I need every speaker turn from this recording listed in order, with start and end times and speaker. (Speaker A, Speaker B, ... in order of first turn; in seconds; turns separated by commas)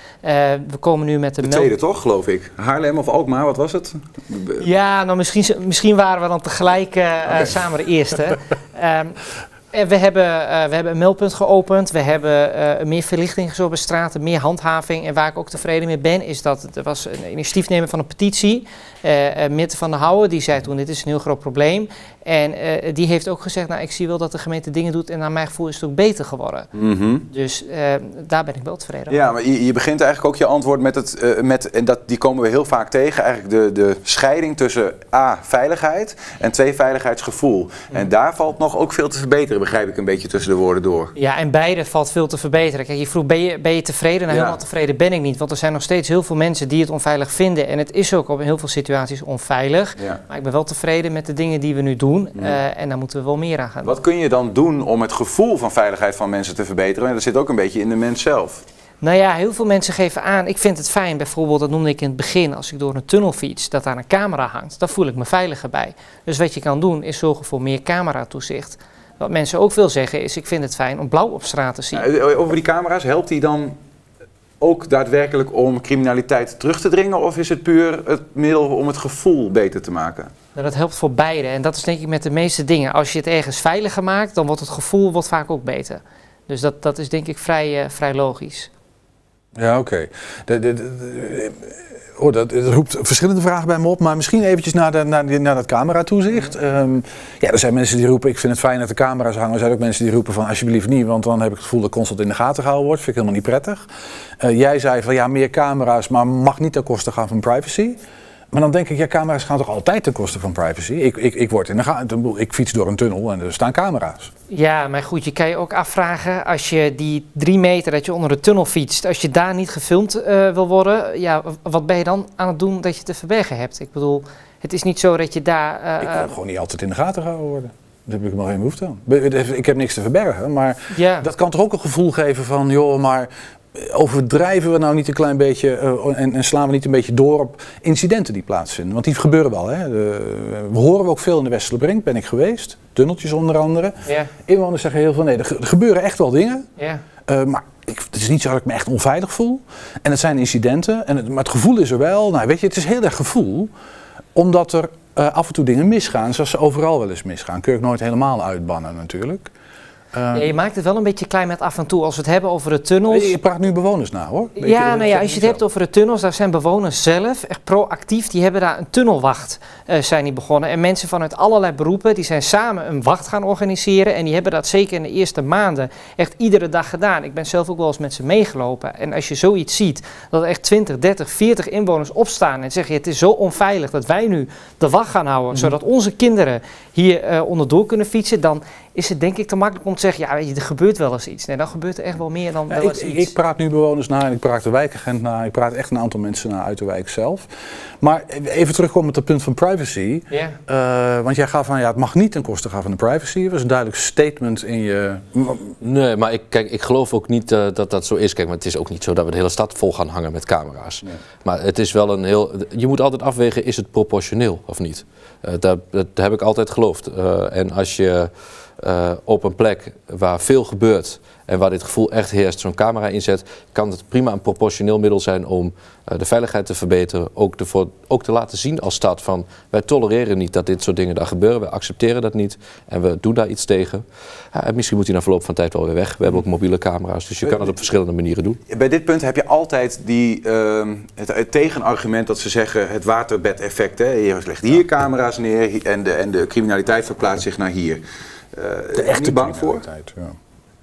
Speaker A: 0.2-1.7, Speaker B: 1.4-4.6, Speaker A: 4.6-9.2, Speaker A: 9.7-26.7, Speaker B: 26.7-27.2, Speaker A: 27.3-29.2, Speaker B: 29.1-41.1, Speaker A: 41.1-54.0, Speaker B: 44.3-44.6, Speaker B: 53.8-58.6, Speaker A: 59.0-72.1, Speaker B: 71.9-73.8, Speaker B: 74.6-80.3, Speaker A: 80.5-88.7, Speaker C: 89.5-103.9, Speaker C: 104.4-108.0, Speaker C: 108.5-114.3, Speaker A: 114.5-126.3, Speaker C: 126.0-146.7, Speaker A: 130.9-131.3, Speaker A: 144.1-144.3, Speaker A: 146.8-147.0, Speaker C: 147.2-153.7, Speaker C: 154.3-159.5, Speaker C: 160.1-160.5, Speaker A: 160.3-163.3, Speaker C: 163.1-165.6, Speaker A: 164.6-193.3, Speaker C: 192.7-197.5, Speaker C: 198.0-205.8, Speaker A: 200.3-200.6, Speaker D: 205.8-238.6, Speaker B: 238.7-248.0, Speaker B: 248.5-249.8, Speaker C: 248.9-250.4